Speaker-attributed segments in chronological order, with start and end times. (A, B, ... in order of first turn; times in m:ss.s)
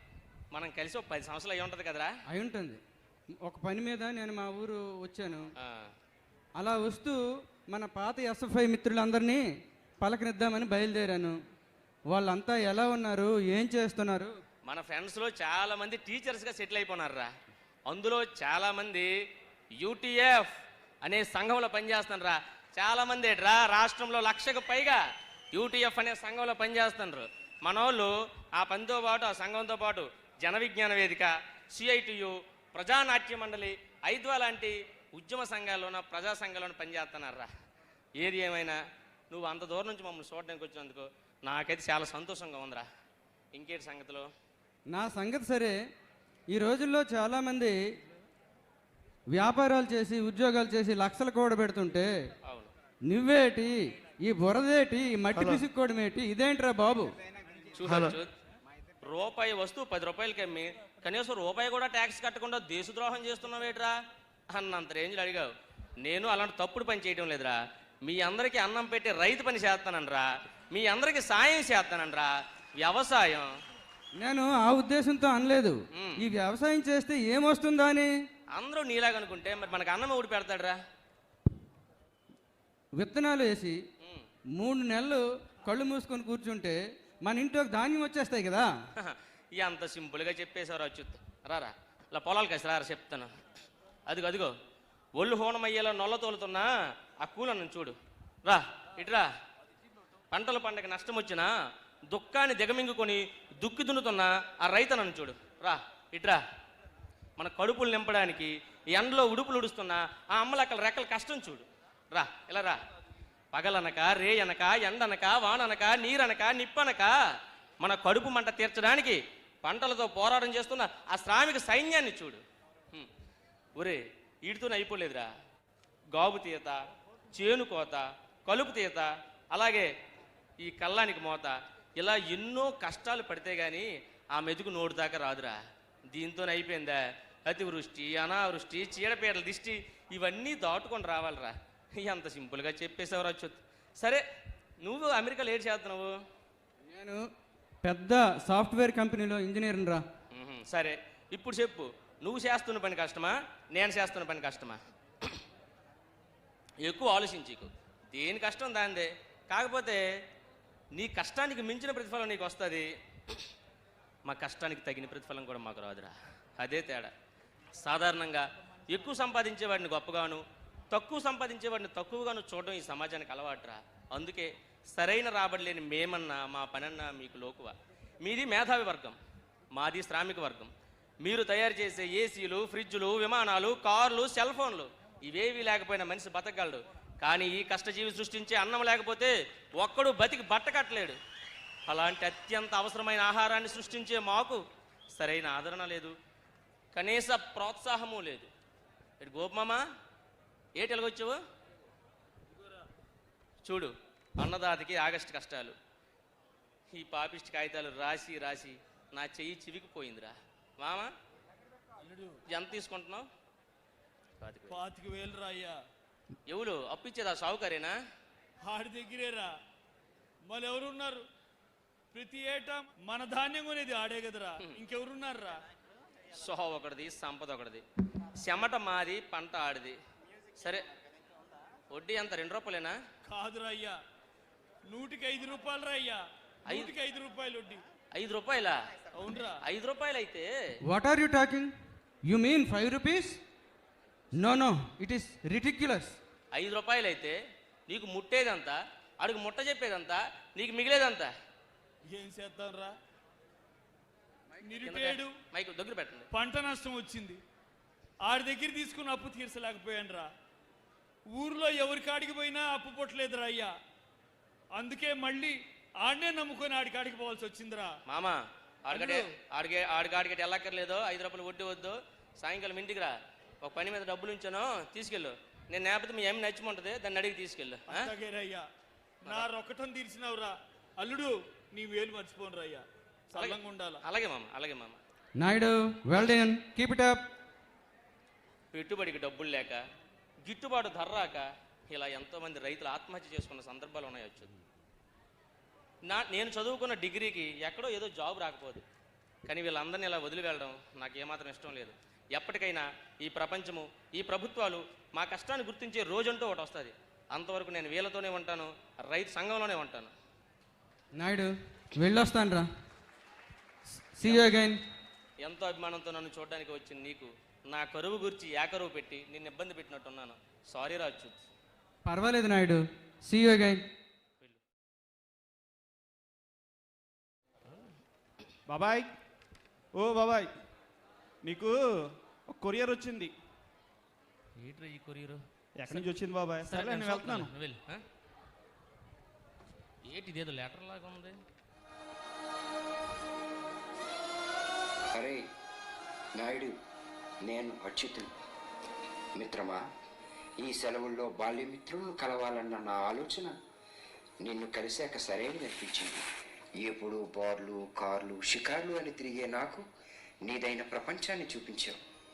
0:00.5-0:02.1 A
0:02.3-0:02.8 B
0:03.4-0:05.5 B
0:05.6-0:05.9 A
0:06.6-0:09.4 B
0:10.0-0:11.4 B
0:12.1-0:14.3 B
0:14.6-0:17.3 A
0:17.9-0:19.1 A
0:19.8-0:20.5 A
0:21.0-0:25.0 A
0:25.5-0:37.5 A
0:38.2-0:38.8 A
0:39.3-0:42.8 A
0:43.5-0:44.3 A
0:44.9-0:45.7 B
0:46.5-0:47.8 B
0:49.3-0:52.1 B
0:52.4-0:52.7 A
0:53.0-0:57.1 B
0:55.3-0:55.6 C
0:57.7-0:58.3 A
0:57.8-0:58.2 C
0:59.0-1:03.9 A
1:04.5-1:05.5 A
1:06.0-1:13.5 A
1:14.2-1:18.1 B
1:15.9-1:16.2 A
1:18.5-1:20.8 A
1:23.0-1:23.8 B
1:24.6-1:28.7 B
1:29.0-1:33.3 A
1:34.1-1:34.5 A
1:35.2-1:36.7 A
1:37.2-1:39.3 A
1:40.3-1:41.5 A
1:42.1-1:46.4 A
1:47.4-1:52.8 A
1:53.5-1:57.1 A
1:57.8-2:03.1 A
2:03.8-2:05.3 A
2:06.1-2:06.8 A
2:07.3-2:09.9 A
2:10.6-2:15.6 A
2:16.1-2:24.2 A
2:24.8-2:26.1 A
2:26.9-2:27.2 B
2:27.8-2:30.0 B
2:30.3-2:35.3 A
2:36.8-2:40.0 A
2:40.9-2:42.9 A
2:44.2-2:47.1 A
2:47.8-2:59.2 A
2:59.7-3:00.7 A
3:01.2-3:11.2 A
3:11.8-3:14.6 A
3:15.1-3:16.1 A
3:16.9-3:18.5 A
3:19.2-3:19.8 A
3:20.8-3:21.4 A
3:23.6-3:25.8 A
3:26.9-3:31.1 A
3:32.5-3:33.3 A
3:34.4-3:34.8 A
3:34.7-3:35.8 D
3:36.5-3:37.9 A
3:38.6-3:39.5 D
3:40.5-3:41.2 D
3:42.1-3:45.6 D
3:46.3-3:47.8 A
3:48.4-3:50.0 A
3:50.6-3:50.8 A
3:51.9-3:53.0 A
3:53.3-3:54.0 D
3:54.9-3:57.8 D
3:56.7-3:56.9 A
3:58.1-3:58.8 A
3:59.1-3:59.6 D
3:59.6-4:00.5 A
4:00.9-4:01.7 B
4:02.2-4:03.4 B
4:04.4-4:06.2 B
4:06.5-4:07.4 A
4:07.9-4:11.3 A
4:12.0-4:12.9 D
4:14.6-4:15.3 D
4:14.8-4:16.3 A
4:16.3-4:17.4 D
4:18.2-4:20.3 D
4:21.3-4:23.7 D
4:24.7-4:27.9 D
4:28.1-4:38.1 A
4:28.9-4:29.3 D
4:37.9-4:38.6 D
4:39.3-4:44.0 D
4:43.3-4:45.0 A
4:45.4-4:47.3 B
4:48.7-4:49.8 A
4:50.4-4:54.5 A
4:56.0-4:58.8 A
4:59.5-5:10.1 A
5:11.2-5:12.7 B
5:14.1-5:14.8 B
5:14.2-5:14.6 A
5:15.4-5:21.4 A
5:22.0-5:23.8 B
5:28.7-5:29.1 C
5:30.0-5:30.5 C
5:31.4-5:31.8 C
5:32.5-5:33.3 C
5:34.6-5:36.1 A
5:35.8-5:37.5 C
5:36.6-5:38.0 A
5:40.0-5:41.4 A
5:45.1-5:45.4 E
5:46.4-5:46.7 E
5:47.4-5:48.3 E
5:49.4-5:49.8 E
5:50.6-5:53.5 E
5:54.4-5:56.2 E
5:56.8-5:59.8 E
6:00.4-6:02.0 E